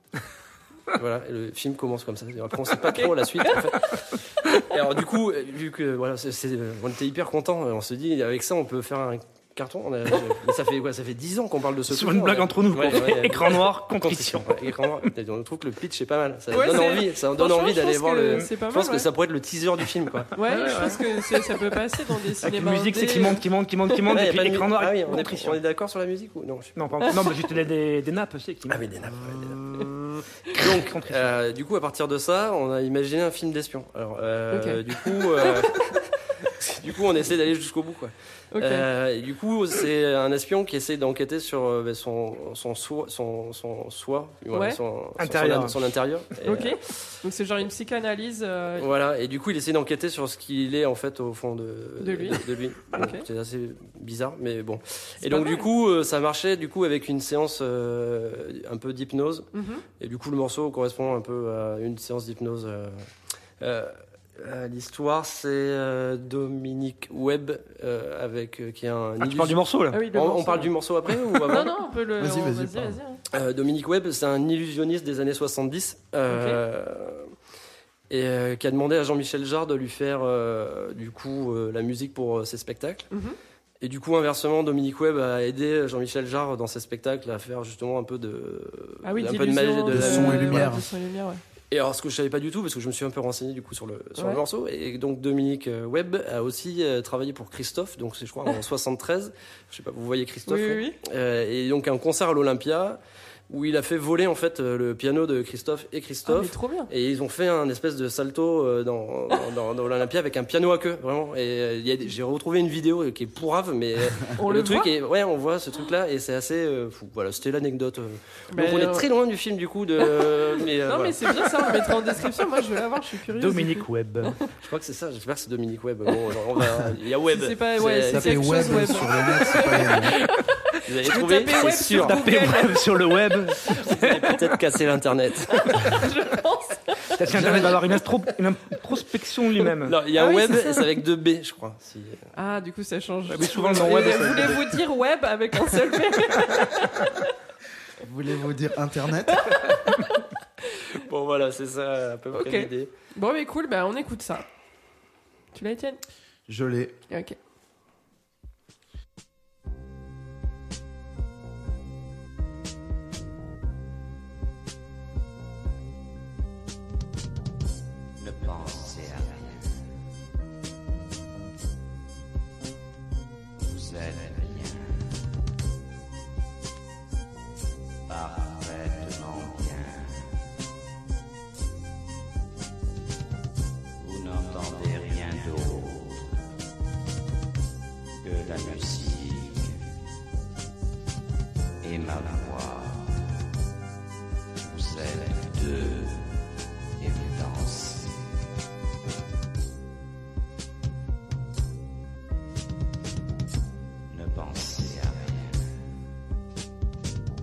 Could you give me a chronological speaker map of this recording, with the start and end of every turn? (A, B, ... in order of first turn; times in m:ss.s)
0:00.9-0:20.9 A
0:02.9-0:03.5 B
0:11.9-0:14.8 C
0:16.5-0:19.1 B
0:20.4-0:23.4 B
0:20.4-0:21.0 C
0:22.4-0:25.6 C
0:24.1-0:26.8 A
0:26.8-0:29.9 C
0:28.7-0:47.0 A
0:30.6-0:31.3 C
0:34.5-0:34.8 B
0:38.5-0:38.8 B
0:44.5-0:44.8 B
0:45.2-0:45.8 C
0:46.4-0:48.9 B
0:48.8-0:59.5 A
0:52.0-0:53.2 B
0:55.2-0:55.7 B
0:59.5-0:59.8 B
1:00.0-1:03.0 A
1:03.6-1:11.7 A
1:09.2-1:10.1 C
1:09.9-1:10.7 B
1:11.5-1:13.2 B
1:12.2-1:13.0 D
1:13.3-1:17.3 A
1:16.3-1:16.6 B
1:18.1-1:23.1 A
1:23.1-1:23.4 B
1:23.8-1:30.7 A
1:29.0-1:31.4 B
1:29.9-1:30.8 D
1:31.7-2:01.8 A
1:40.5-1:41.0 B
1:46.2-1:46.9 B
1:54.4-1:54.9 B
1:58.5-1:59.1 B
2:00.0-2:04.4 B
2:03.3-2:04.4 C
2:04.6-2:09.0 A
2:07.3-2:12.9 B
2:08.0-2:10.2 D
2:10.8-2:12.2 A
2:11.9-2:14.4 C
2:13.8-2:16.0 A
2:15.6-2:17.5 B
2:17.1-2:20.0 C
2:17.3-2:18.0 A
2:19.8-2:22.3 A
2:20.1-2:20.9 B
2:22.3-2:27.1 B
2:23.3-2:24.8 C
2:28.0-2:29.7 D
2:29.4-2:30.1 B
2:30.9-2:32.9 A
2:32.3-2:34.4 B
2:35.5-2:36.0 B
2:36.5-2:37.0 D
2:37.1-2:37.4 B
2:48.2-2:49.9 E
2:53.6-2:55.1 E
2:58.1-3:00.3 E
3:04.0-3:06.4 E
3:08.2-3:09.8 E
3:11.8-3:13.2 E
3:14.6-3:16.3 E
3:17.0-3:18.3 E
3:24.1-3:25.9 E